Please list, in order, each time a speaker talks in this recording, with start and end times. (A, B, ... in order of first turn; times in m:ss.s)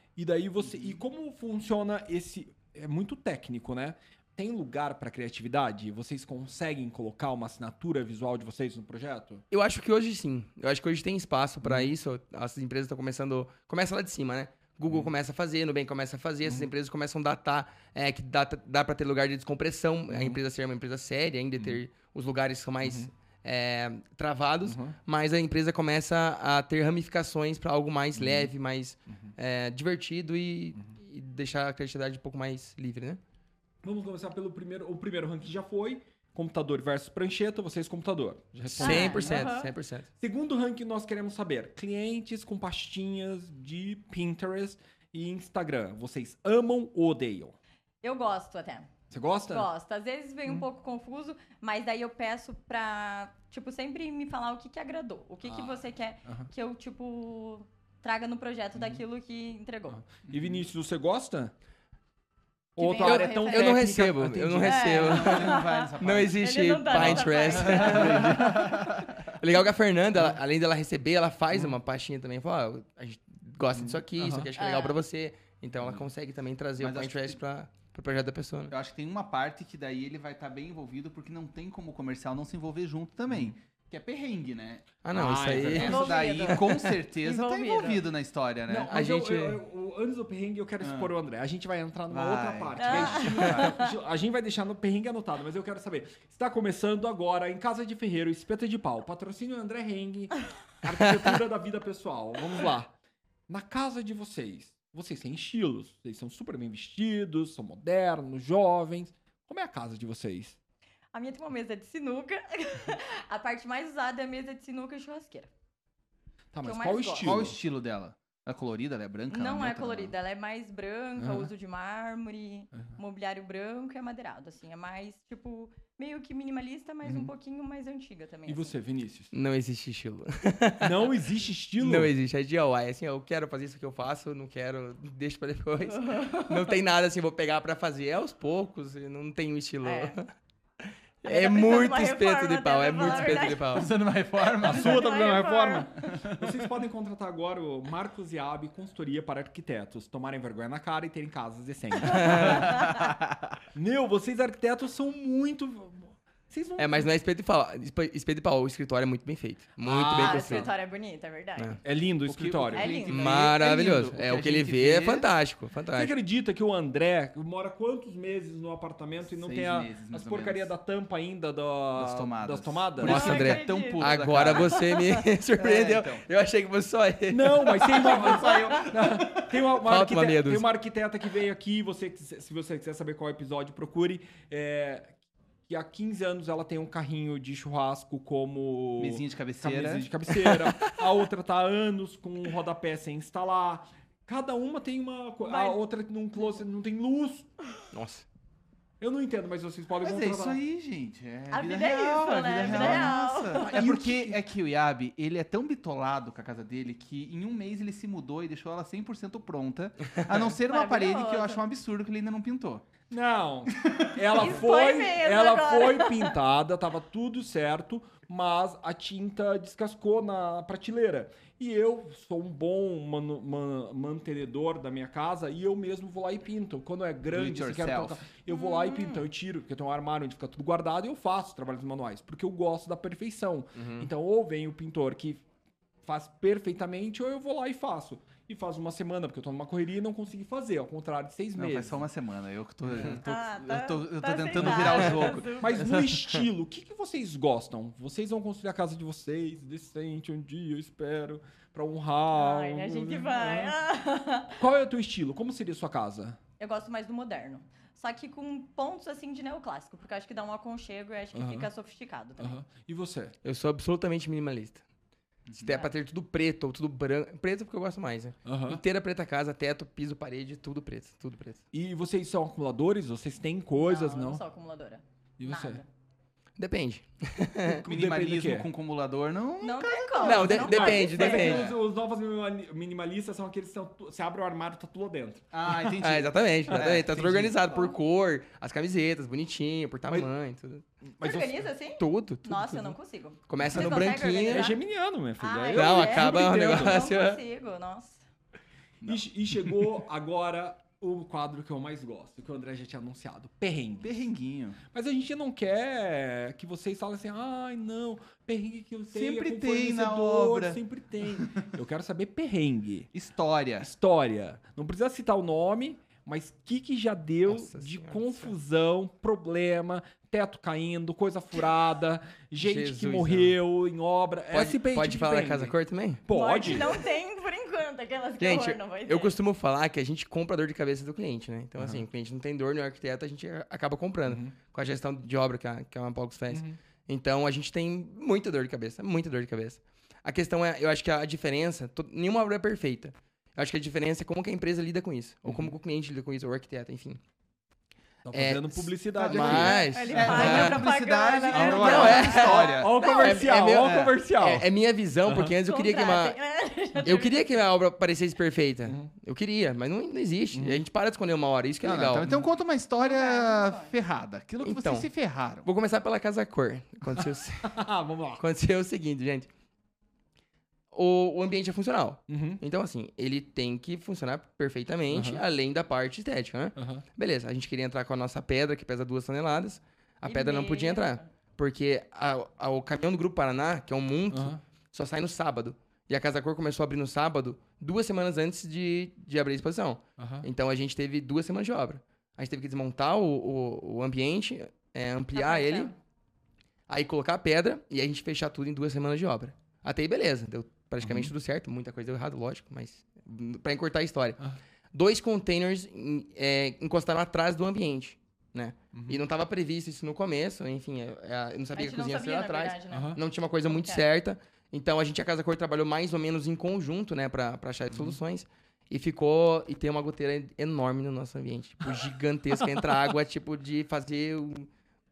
0:00.2-0:09.4 A
0:09.5-0:33.2 B
0:11.6-0:11.9 A
0:20.1-0:20.4 A
0:22.8-0:23.1 A
0:24.6-0:25.0 A
0:28.1-0:28.5 A
0:33.8-0:39.3 A
0:38.7-0:40.1 B
0:38.8-0:39.7 C
0:40.2-0:47.6 A
0:48.0-0:48.9 C
0:49.1-0:49.7 A
0:49.5-1:00.0 C
0:55.4-0:56.5 A
0:58.8-0:59.0 A
0:59.9-1:01.5 A
1:00.3-1:00.6 D
1:02.8-1:05.0 A
1:02.8-1:03.9 C
1:03.0-1:08.7 B
1:04.6-1:08.7 C
1:05.0-1:06.4 D
1:06.9-1:09.2 D
1:09.3-1:18.7 B
1:13.8-1:14.5 A
1:14.6-1:15.0 C
1:16.8-1:17.4 D
1:18.7-1:28.9 D
1:25.0-1:26.9 B
1:25.1-1:26.2 A
1:25.8-1:28.1 C
1:28.7-1:42.9 A
1:28.9-1:29.6 B
1:30.8-1:31.1 D
1:32.1-1:33.8 D
1:32.8-1:33.8 C
1:43.5-1:50.6 A
1:51.1-1:55.5 C
1:56.5-1:57.6 A
1:56.6-1:57.4 C
1:57.2-2:00.1 D
1:59.3-2:08.7 C
2:01.2-2:01.5 A
2:07.0-2:07.3 A
2:08.4-2:09.3 A
2:09.3-2:11.1 B
2:10.8-2:12.1 A
2:11.8-2:20.3 B
2:15.9-2:16.7 C
2:19.8-2:20.2 C
2:20.8-2:23.9 B
2:21.2-2:26.2 C
2:23.6-2:25.1 D
2:24.6-2:32.7 A
2:26.1-2:26.6 D
2:32.1-2:33.0 C
2:32.1-2:32.6 B
2:32.6-2:33.1 D
2:33.7-2:37.1 A
2:36.8-2:40.7 B
2:39.8-2:40.7 A
2:40.1-2:41.8 C
2:41.8-2:42.9 A
2:42.2-2:45.3 D
2:42.7-2:43.2 C
2:43.0-2:46.1 B
2:45.9-2:53.6 A
2:49.2-2:50.7 D
2:51.9-2:54.8 D
2:53.0-2:55.2 C
2:53.0-2:58.2 B
2:55.5-2:56.2 D
2:57.3-3:17.5 A
2:58.0-2:59.0 D
2:58.2-2:58.8 C
2:59.4-3:00.6 B
3:09.0-3:10.1 D
3:10.4-3:10.9 B
3:15.4-3:15.8 C
3:17.9-3:18.2 B
3:19.0-3:20.6 A
3:20.0-3:32.8 D
3:21.5-3:23.8 C
3:22.6-3:24.4 A
3:30.7-3:31.6 C
3:33.1-3:55.4 A
3:34.3-3:36.3 C
3:47.3-3:48.2 D
3:48.5-3:49.3 C
3:53.8-3:54.1 B
3:56.0-4:02.0 A
4:01.5-4:06.2 D
4:03.2-4:05.9 C
4:04.6-4:13.8 A
4:12.3-4:14.6 C
4:14.6-4:16.4 A
4:16.6-4:22.6 C
4:21.3-4:21.7 A
4:22.4-4:23.3 A
4:23.4-4:24.8 B
4:25.5-4:25.8 D
4:25.6-4:31.6 B
4:28.4-4:28.8 A
4:31.7-4:34.4 A
4:33.8-4:35.9 C
4:35.4-4:35.8 A
4:36.6-4:37.8 B
4:37.6-4:38.7 A
4:37.9-4:40.6 D
4:39.6-4:41.7 C
4:40.2-4:41.7 B
4:40.5-4:45.8 A
4:41.4-4:41.8 D
4:45.5-4:47.9 D
4:45.8-4:50.8 B
4:46.7-4:47.5 A
4:51.1-4:51.7 A
4:51.2-4:54.8 C
4:52.0-4:52.9 B
4:53.5-4:54.7 B
4:53.6-4:57.0 A
4:55.4-4:58.2 C
4:55.7-4:57.4 B
4:59.0-4:59.2 D
4:59.0-5:04.2 A
5:04.0-5:04.8 D
5:04.9-5:13.1 A
5:09.1-5:10.8 D
5:13.1-5:13.9 D
5:13.8-5:27.0 A
5:17.5-5:18.6 B
5:22.6-5:23.6 B
5:24.5-5:26.2 B
5:26.3-5:29.4 C
5:28.4-5:47.2 B
5:31.8-5:32.0 A
5:34.2-5:34.6 A
5:36.5-5:36.8 A
5:45.5-5:45.7 A
5:48.2-5:50.4 A
5:48.3-5:50.8 B
5:49.3-5:53.4 C
5:50.1-5:54.2 D
5:51.5-5:54.6 A
5:51.8-5:56.4 B
5:55.2-5:55.5 A
5:55.6-5:57.3 C
5:57.0-6:02.3 B
5:58.9-5:59.1 A
6:00.5-6:00.8 A
6:01.8-6:02.4 A
6:01.9-6:05.6 D
6:03.0-6:03.9 C
6:04.6-6:05.1 B
6:05.6-6:07.8 B
6:07.6-6:08.4 A
6:08.4-6:09.5 B
6:10.9-6:35.9 B
6:12.3-6:12.6 A
6:15.1-6:15.4 A
6:16.8-6:17.0 A
6:20.2-6:21.2 C
6:24.3-6:24.6 A
6:30.2-6:30.5 A
6:35.3-6:35.9 C
6:36.9-6:44.4 B
6:41.0-6:41.3 A
6:44.9-7:04.7 B
6:48.9-6:49.2 A
6:51.7-6:54.0 C
6:52.9-6:53.2 A
6:57.9-6:58.2 A